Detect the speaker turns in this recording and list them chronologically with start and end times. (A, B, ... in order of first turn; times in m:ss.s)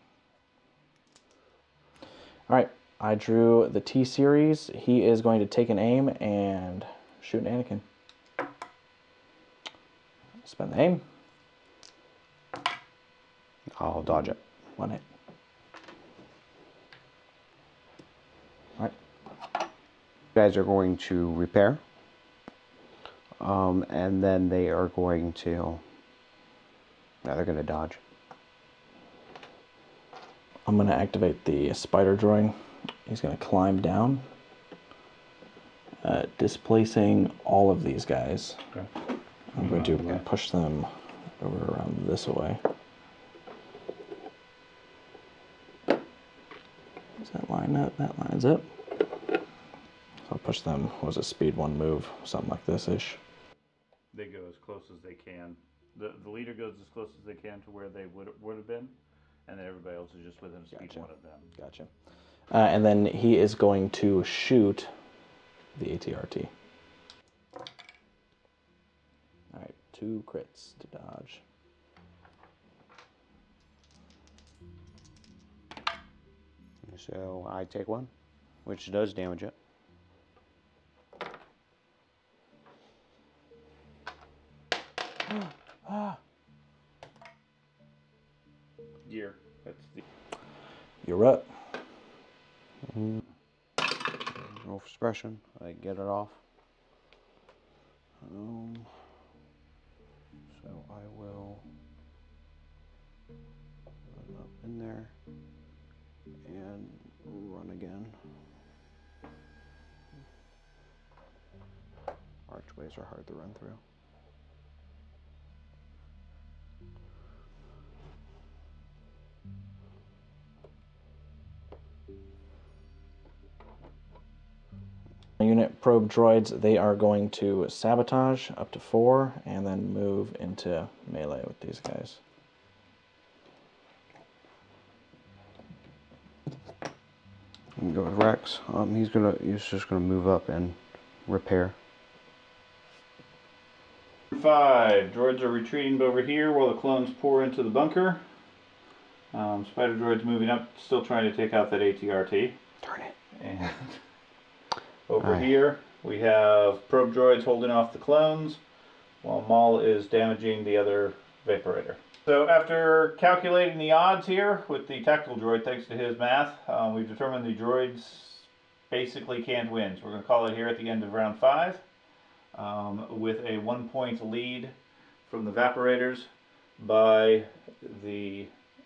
0:02.5-0:07.8 A
0:10.4-0:11.0 A
0:13.8-0:14.4 B
0:14.8-0:15.0 A
0:20.3-0:21.8 B
0:23.4-0:25.9 B
0:27.2-0:28.0 B
0:30.7-0:34.2 A
0:36.0-0:38.6 A
0:39.5-0:42.6 A
0:39.6-0:40.2 C
0:47.2-0:48.8 A
0:50.3-0:53.2 A
0:54.1-0:58.9 C
0:59.5-1:01.5 C
1:00.7-1:01.9 A
1:02.5-1:04.9 A
1:05.8-1:06.5 A
1:09.5-1:11.4 A
1:16.8-1:18.1 B
1:18.6-1:19.5 B
1:25.3-1:26.2 A
1:29.0-1:30.0 C
1:31.0-1:31.6 A
1:32.9-1:33.2 B
1:34.2-1:36.4 B
1:38.2-1:39.1 B
1:40.5-1:41.6 B
1:44.1-1:45.2 B
1:46.4-1:48.4 B
1:52.5-1:53.8 B
2:05.4-2:12.2 A
2:17.8-2:21.8 B
2:24.3-2:28.2 C
2:29.3-2:32.6 C
2:32.8-2:33.1 B
2:33.4-2:34.0 C
2:35.1-2:38.6 C
2:39.2-2:51.8 C
2:52.5-2:54.8 C
2:55.3-2:58.5 C